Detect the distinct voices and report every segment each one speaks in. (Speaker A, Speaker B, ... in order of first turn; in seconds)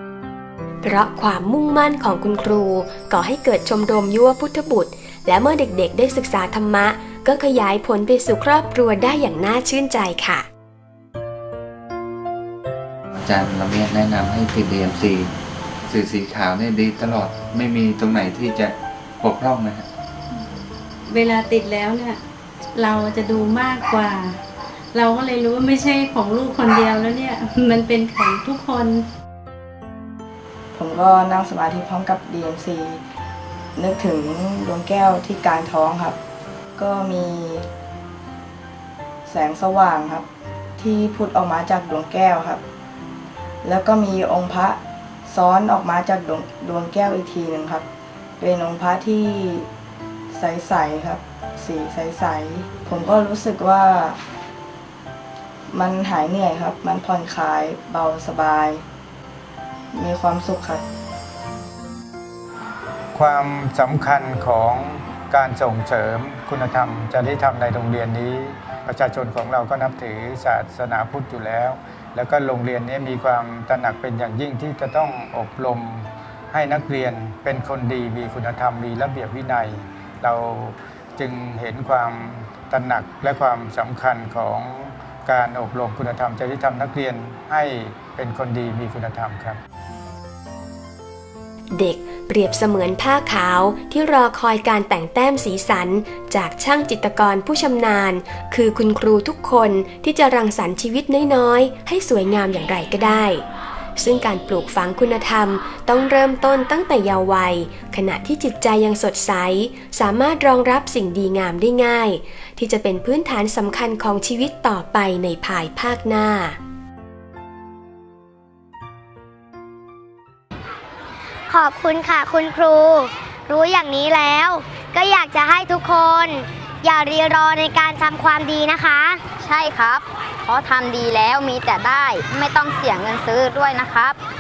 Speaker A: 0.8-10.4, 91.7-103.4, 104.0-116.6
Speaker B: 13.1-15.3, 15.8-19.9
Speaker C: 21.1-22.2, 22.8-24.4, 24.9-29.0
Speaker D: 30.8-33.0, 33.8-36.2, 36.8-37.7, 39.3-40.2, 40.8-42.6, 43.6-47.9, 48.4-49.7, 50.3-54.2, 55.7-58.8, 59.9-60.8
Speaker E: 63.1-89.6
Speaker F: 121.5-129.2
Speaker G: 129.4-134.2